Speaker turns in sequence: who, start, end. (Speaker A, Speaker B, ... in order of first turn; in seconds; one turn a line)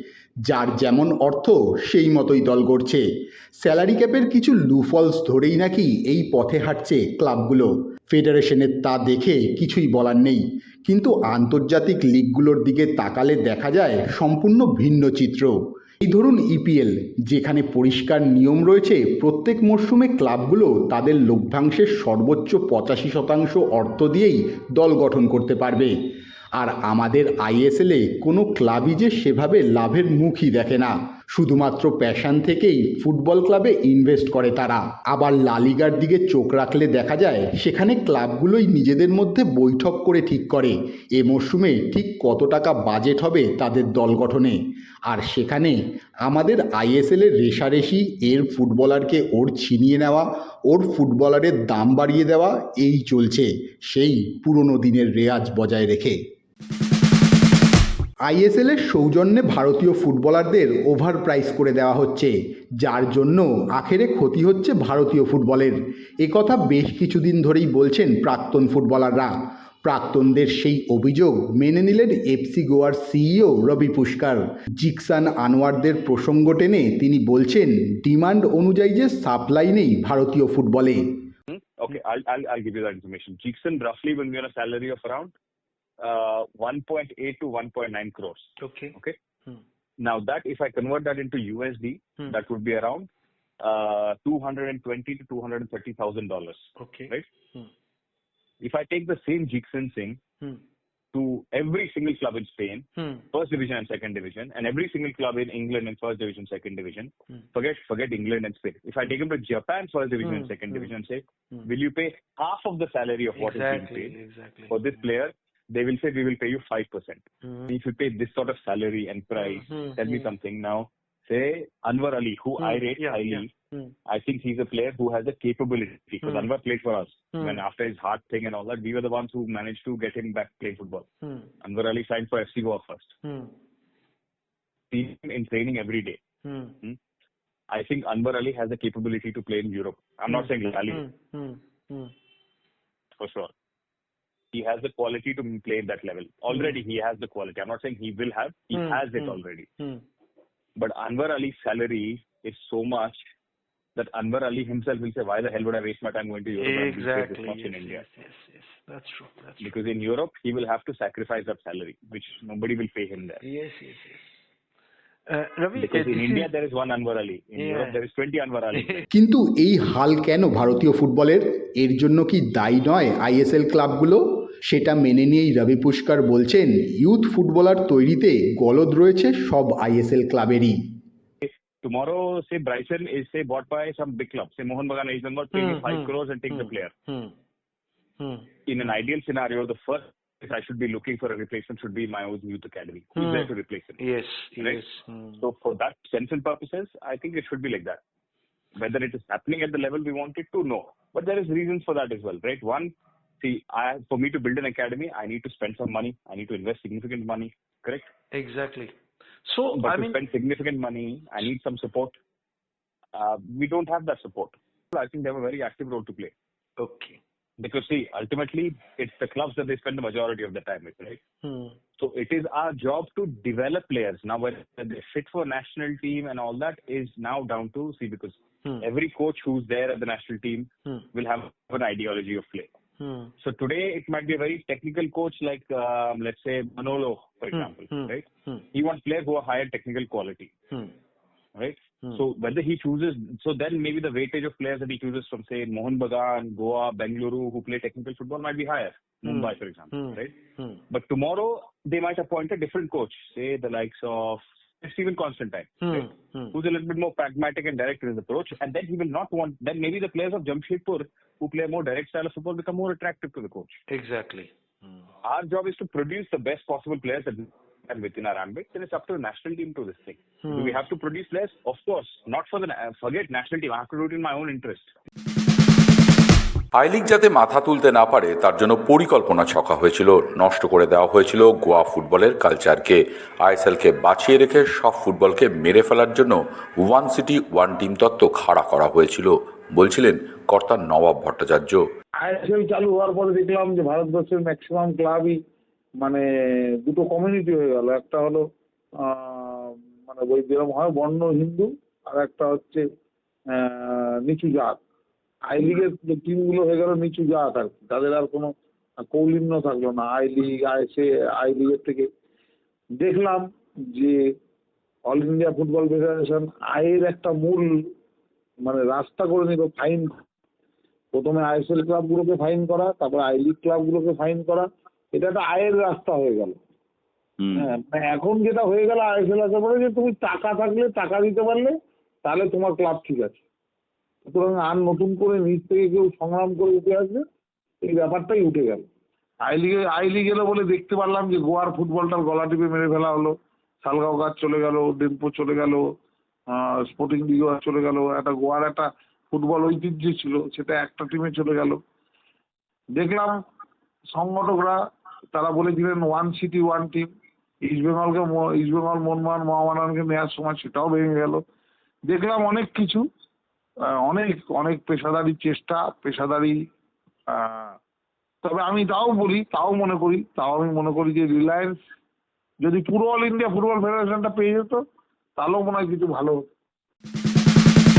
Speaker A: 0.5-3.0
Speaker A: 3.6-25.9
Speaker A: 26.6-56.2
Speaker A: 58.2-81.2
Speaker B: 81.5-85.3
Speaker B: 86.0-89.2
Speaker C: 88.6-88.9
Speaker B: 90.0-93.1
Speaker B: 93.6-97.2
Speaker C: 96.8-97.7
Speaker B: 98.6-100.2
Speaker B: 101.1-114.2
Speaker C: 103.0-103.3
Speaker C: 110.2-110.9
Speaker C: 113.3-115.1
Speaker B: 114.7-123.5
Speaker C: 117.4-117.7
Speaker C: 119.3-120.3
Speaker C: 122.6-123.9
Speaker B: 124.1-131.1
Speaker C: 126.2-126.5
Speaker C: 127.3-127.6
Speaker C: 131.2-131.5
Speaker B: 131.6-133.1
Speaker C: 133.2-133.5
Speaker B: 134.9-136.2
Speaker C: 136.4-136.8
Speaker B: 137.7-141.0
Speaker C: 140.3-142.1
Speaker B: 143.2-143.5
Speaker B: 144.5-149.7
Speaker C: 146.5-146.8
Speaker C: 148.7-150.0
Speaker B: 150.8-153.2
Speaker B: 153.9-158.0
Speaker C: 156.6-159.7
Speaker B: 159.6-163.4
Speaker C: 163.4-164.3
Speaker C: 165.3-166.5
Speaker B: 165.7-169.0
Speaker C: 167.6-168.0
Speaker C: 168.7-169.0
Speaker A: 169.1-180.8
Speaker B: 181.4-186.9
Speaker C: 185.5-187.3
Speaker C: 188.2-189.0
Speaker B: 188.7-194.0
Speaker C: 193.2-195.4
Speaker B: 194.6-194.8
Speaker B: 195.4-198.0
Speaker B: 198.7-208.1
Speaker C: 208.3-210.2
Speaker B: 209.7-212.2
Speaker B: 213.1-216.3
Speaker C: 216.8-217.2
Speaker B: 217.6-221.2
Speaker C: 221.4-221.8
Speaker B: 222.0-232.7
Speaker C: 233.0-233.3
Speaker B: 233.4-240.5
Speaker C: 237.5-238.7
Speaker C: 240.7-240.9
Speaker B: 241.6-250.3
Speaker C: 249.2-250.8
Speaker B: 250.9-263.8
Speaker C: 255.8-256.6
Speaker C: 263.9-265.1
Speaker B: 265.2-274.9
Speaker C: 270.4-270.8
Speaker D: 276.7-291.8
Speaker E: 292.2-295.4
Speaker E: 296.8-298.4
Speaker E: 299.0-302.8
Speaker E: 303.5-304.8
Speaker E: 305.5-308.5
Speaker E: 309.0-312.1
Speaker E: 313.0-314.2
Speaker E: 315.1-317.7
Speaker E: 318.6-320.2
Speaker E: 321.1-326.6
Speaker D: 327.4-327.7
Speaker E: 327.5-333.4
Speaker E: 334.2-337.2
Speaker E: 337.8-338.9
Speaker E: 339.4-345.8
Speaker E: 346.5-351.8
Speaker E: 352.9-353.4
Speaker E: 354.1-354.8
Speaker E: 355.3-357.1
Speaker E: 357.6-361.4
Speaker E: 362.1-363.0
Speaker E: 364.0-366.6
Speaker E: 367.3-367.8
Speaker E: 368.4-371.8
Speaker E: 372.6-374.8
Speaker E: 375.4-376.5